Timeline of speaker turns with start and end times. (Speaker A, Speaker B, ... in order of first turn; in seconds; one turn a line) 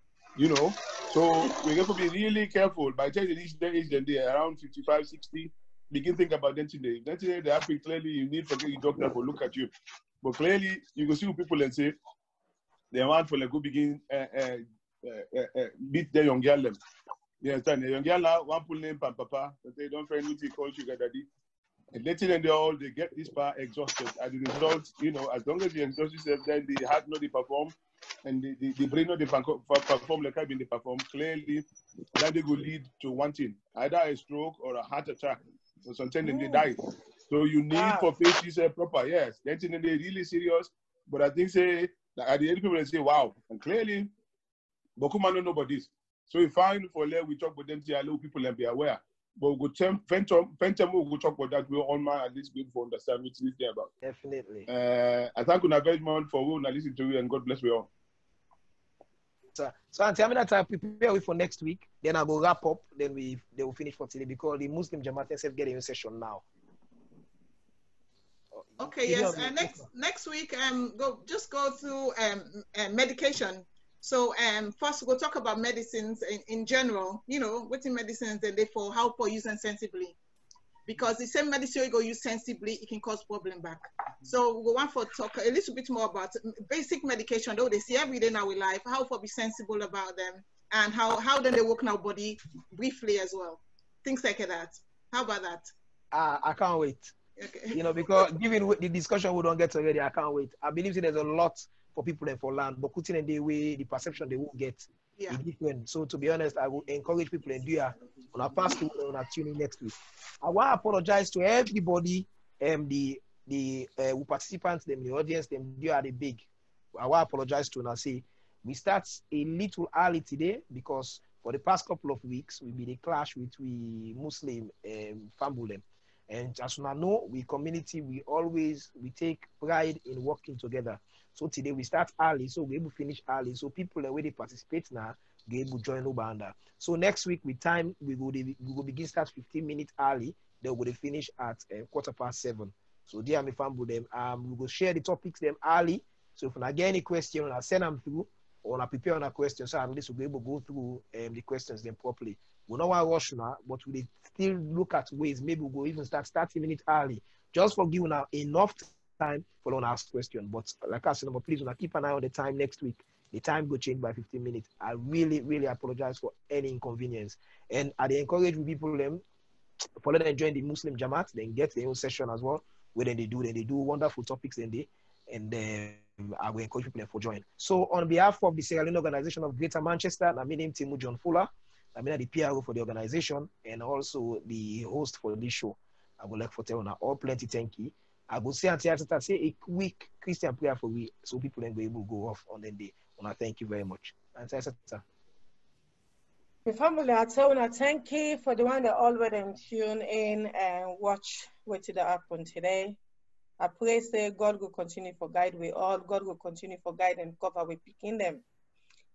Speaker A: 0.3-9.7
Speaker A: 10.2-11.9
Speaker A: 12.9-16.8
Speaker A: 17.4-21.2
Speaker A: 21.9-31.6
Speaker A: 32.1-44.1
Speaker B: 36.2-36.7
Speaker B: 37.7-38.1
Speaker A: 45.0-53.9
Speaker C: 54.0-54.7
Speaker A: 54.7-57.9
Speaker C: 59.5-66.4
Speaker C: 68.5-69.8
Speaker D: 68.8-80.2
Speaker D: 80.9-95.7
Speaker C: 96.1-97.1
Speaker D: 97.4-98.2
Speaker C: 97.7-169.2
Speaker C: 170.0-195.0
Speaker B: 196.6-203.0
Speaker B: 203.6-208.4